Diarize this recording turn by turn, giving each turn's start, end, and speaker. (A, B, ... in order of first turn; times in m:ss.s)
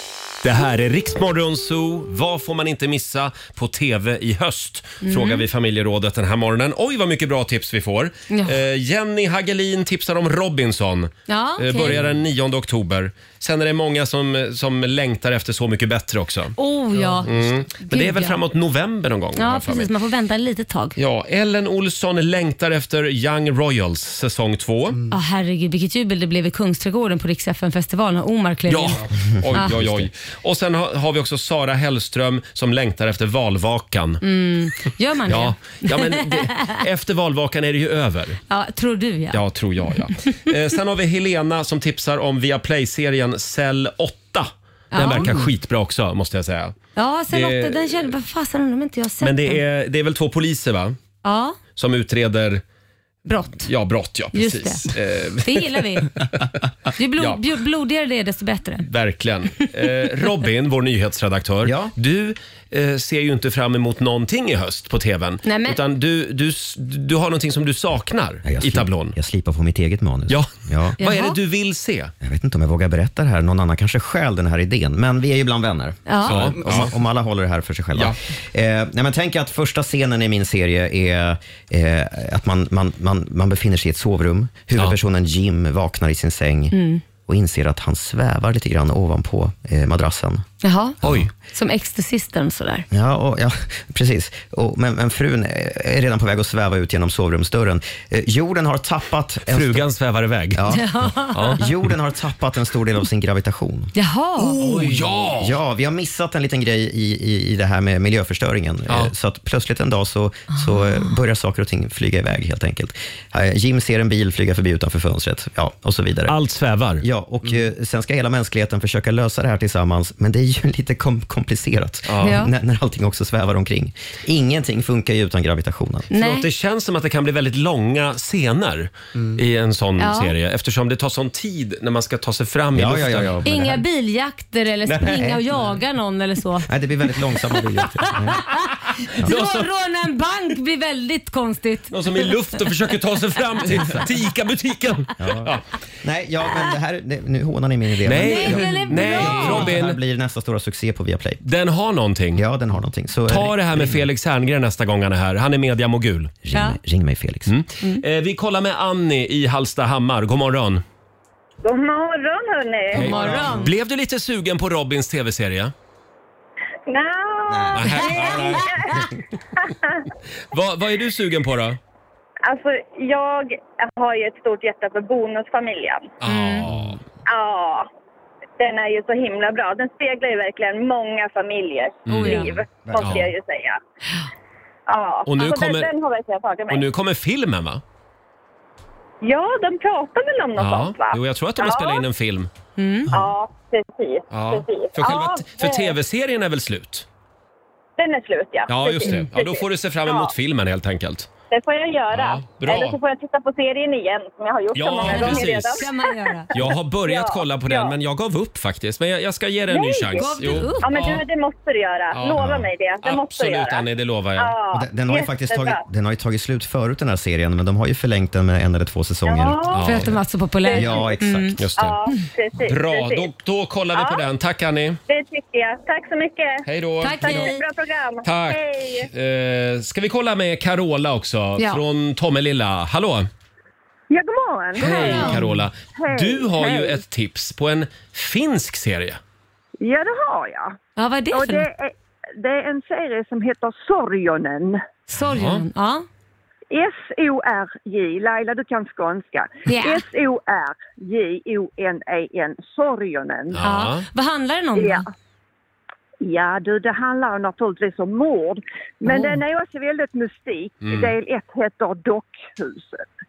0:00.4-0:16.6 A
0:05.0-0:05.4 B
0:08.3-0:08.6 B
0:11.3-0:12.0 B
0:16.6-0:18.4 B
0:17.2-0:19.9 A
0:19.4-0:21.0 B
0:21.0-0:25.0 A
0:25.1-0:29.0 B
0:28.7-0:34.2 A
0:34.2-0:36.8 B
0:35.3-0:38.4 A
0:38.5-0:39.4 B
0:39.3-0:46.8 A
0:44.9-0:45.4 B
0:47.0-0:49.6 B
0:47.3-0:48.1 A
0:49.2-0:51.0 A
0:51.2-0:51.6 B
0:51.8-0:52.6 A
0:53.2-0:53.7 B
0:53.7-0:55.9 A
0:54.3-0:54.9 B
0:55.4-0:56.1 B
0:57.0-0:58.8 B
0:58.8-1:09.1 A
1:01.6-1:01.9 C
1:05.4-1:05.8 B
1:08.4-1:11.0 C
1:10.3-1:12.1 A
1:11.0-1:11.4 B
1:12.2-1:30.4 C
1:16.1-1:16.4 B
1:16.2-1:16.9 A
1:26.7-1:27.0 B
1:30.6-1:31.0 B
1:31.0-1:31.3 C
1:31.0-1:31.3 A
1:31.5-1:32.9 B
1:32.9-1:39.8 C
1:39.5-1:40.7 A
1:40.5-1:43.9 C
1:40.7-1:41.6 B
1:41.3-1:41.8 A
1:43.9-1:44.6 B
1:44.4-1:45.5 A
1:44.6-1:56.3 C
1:50.5-1:51.1 B
1:56.3-1:57.0 A
1:57.0-2:06.1 C
2:02.0-2:02.4 A
2:02.2-2:02.5 B
2:06.1-2:06.4 B
2:06.1-2:13.3 A
2:10.0-2:10.3 B
2:12.7-2:13.8 C
2:13.4-2:16.7 B
2:14.9-2:15.7 C
2:16.6-2:18.4 C
2:18.1-2:18.6 B
2:19.2-2:19.6 A
2:19.2-2:22.2 B
2:21.9-2:25.6 A
2:25.2-2:31.4 C
2:28.0-2:30.0 A
2:28.2-2:29.7 B
2:31.4-2:32.4 A
2:32.3-2:34.0 C
2:33.3-2:36.3 A
2:36.4-2:37.6 C
2:37.5-2:40.8 A
2:41.6-2:43.1 D
2:42.9-2:45.7 A
2:43.0-2:43.7 B
2:43.1-2:43.5 C
2:46.9-2:49.1 D
2:47.5-2:48.6 C
2:47.7-2:48.7 A
2:49.6-2:50.0 D
2:50.5-2:51.8 A
2:52.4-2:56.1 D
2:56.2-2:57.0 A
2:56.2-2:56.7 B
2:57.3-2:57.9 D
2:58.6-3:03.8 D
3:02.1-3:03.3 A
3:02.1-3:02.5 B
3:02.8-3:03.2 C
3:04.9-3:06.8 D
3:05.2-3:05.9 A
3:06.7-3:07.8 A
3:09.2-3:12.0 D
3:10.6-3:12.5 A
3:12.8-3:13.1 B
3:13.1-3:16.0 D
3:14.3-3:17.1 A
3:18.0-3:20.3 D
3:18.7-3:21.3 A
3:21.5-3:27.9 D
3:22.1-3:23.0 A
3:24.7-3:25.9 A
3:25.0-3:26.5 B
3:26.5-3:31.2 A
3:29.7-3:33.8 D
3:30.2-3:31.0 B
3:32.1-3:34.5 A
3:34.4-3:35.8 D
3:34.7-3:39.6 C
3:39.2-3:39.9 D
3:39.7-3:40.2 A
3:39.8-3:41.6 B
3:40.6-3:41.0 D
3:40.7-3:41.6 C
3:41.6-3:42.0 A
3:41.8-3:43.3 D
3:42.6-3:45.0 A
3:43.9-3:44.2 D
3:45.1-3:46.6 D
3:46.6-3:47.5 A
3:47.0-3:47.6 B
3:47.2-3:49.1 D
3:48.2-3:53.3 A
3:54.1-3:55.4 E
3:54.8-3:55.4 B
3:54.8-3:59.2 A
3:55.9-3:57.0 E
3:59.8-4:00.8 E
4:01.0-4:01.6 B
4:01.3-4:04.8 E
4:05.1-4:06.0 B
4:05.3-4:05.6 A
4:06.7-4:13.6 E
4:09.6-4:10.0 B
4:13.5-4:14.0 A
4:13.6-4:15.0 B
4:14.8-4:15.1 E
4:16.2-4:23.0 E
4:19.0-4:19.4 B
4:20.8-4:21.1 A